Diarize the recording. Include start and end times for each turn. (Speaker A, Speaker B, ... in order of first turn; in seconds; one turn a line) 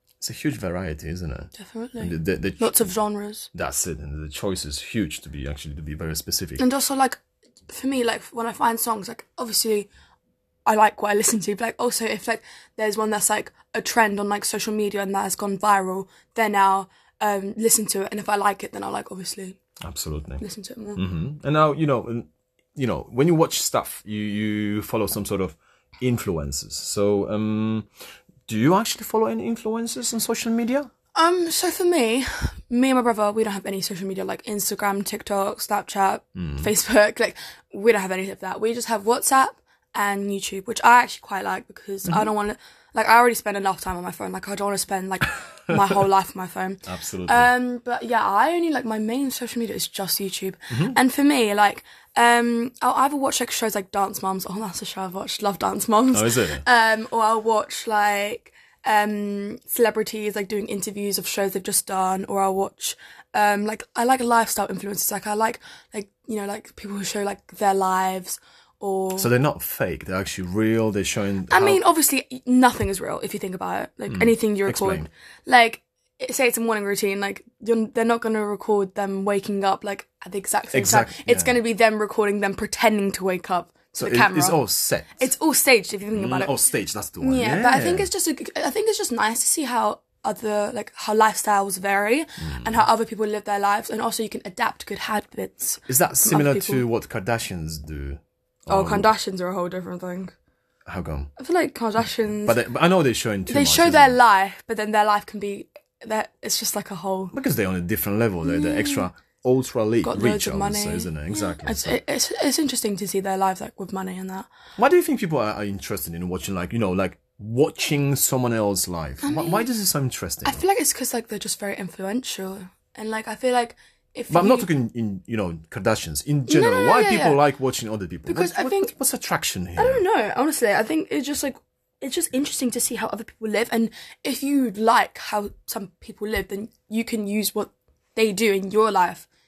Speaker A: 0.2-2.9
Speaker B: 1.6-3.5
Speaker A: 3.5-6.6
Speaker B: 6.6-9.9
Speaker B: 10.7-19.6
Speaker A: 19.8-20.4
Speaker B: 20.4-21.0
Speaker A: 21.0-27.9
Speaker A: 28.5-30.9
Speaker B: 31.1-69.3
Speaker A: 36.4-36.7
Speaker A: 46.9-47.5
Speaker A: 50.7-51.0
Speaker A: 56.1-56.6
Speaker A: 69.2-71.8
Speaker B: 71.5-84.6
Speaker A: 74.1-75.1
Speaker A: 80.7-81.6
Speaker A: 84.0-85.3
Speaker B: 85.2-86.7
Speaker A: 86.1-88.1
Speaker B: 87.2-96.8
Speaker A: 92.4-92.8
Speaker A: 95.9-99.1
Speaker B: 98.7-100.3
Speaker A: 100.9-101.3
Speaker B: 101.4-102.6
Speaker A: 102.4-104.2
Speaker B: 103.5-107.3
Speaker A: 107.3-112.0
Speaker B: 108.5-109.1
Speaker B: 110.0-114.5
Speaker A: 114.8-120.6
Speaker B: 119.2-119.7
Speaker B: 120.4-124.7
Speaker A: 124.3-130.0
Speaker B: 126.5-127.4
Speaker B: 128.3-128.9
Speaker B: 129.8-139.3